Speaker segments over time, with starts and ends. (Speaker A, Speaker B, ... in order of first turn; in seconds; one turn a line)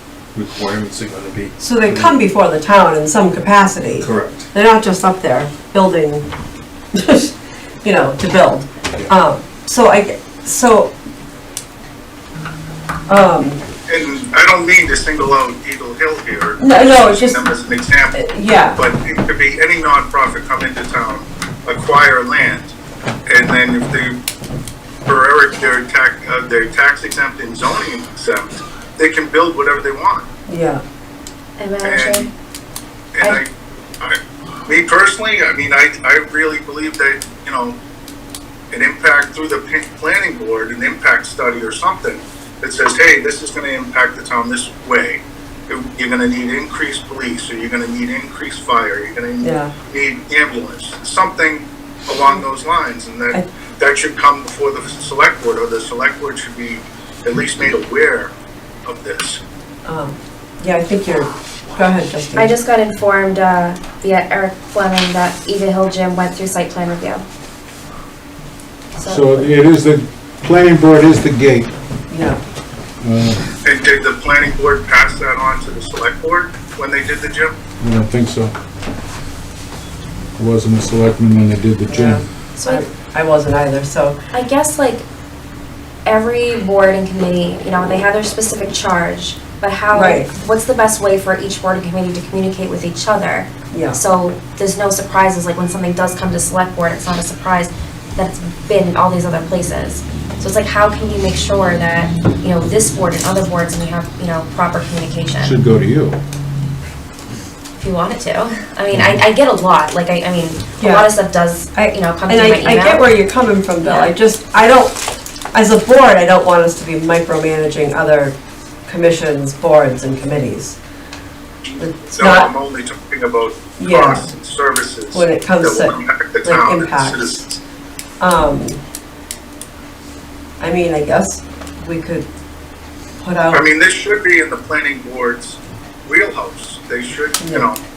Speaker A: 0.3-2.2
Speaker B: 1.6-6.3
Speaker A: 4.0-4.5
Speaker B: 6.9-10.9
Speaker B: 13.1-13.6
Speaker C: 13.9-18.2
Speaker B: 16.6-17.4
Speaker B: 18.1-18.8
Speaker C: 18.8-22.8
Speaker C: 23.3-24.2
Speaker C: 25.1-30.3
Speaker B: 30.5-30.8
Speaker D: 31.6-32.3
Speaker C: 31.8-32.3
Speaker C: 33.1-33.5
Speaker C: 34.0-37.8
Speaker C: 38.7-58.3
Speaker B: 49.4-49.7
Speaker C: 58.9-59.4
Speaker B: 59.9-62.5
Speaker D: 62.4-67.3
Speaker D: 69.0-69.5
Speaker E: 69.0-71.7
Speaker B: 72.1-72.4
Speaker E: 73.0-73.4
Speaker C: 73.6-77.5
Speaker E: 77.8-78.5
Speaker E: 80.4-82.2
Speaker B: 81.9-84.2
Speaker D: 84.3-85.0
Speaker D: 86.0-105.5
Speaker B: 89.9-90.3
Speaker B: 93.7-94.0
Speaker E: 105.4-106.2
Speaker D: 107.8-113.0
Speaker E: 108.9-109.2
Speaker B: 110.8-111.1
Speaker B: 112.3-115.0
Speaker D: 113.8-114.1
Speaker B: 115.5-120.8
Speaker B: 121.8-122.5
Speaker C: 122.1-127.6
Speaker B: 123.8-124.3
Speaker B: 125.1-127.4
Speaker B: 128.2-128.8
Speaker B: 130.6-132.3
Speaker B: 133.2-133.7
Speaker C: 133.5-137.8
Speaker B: 137.4-137.7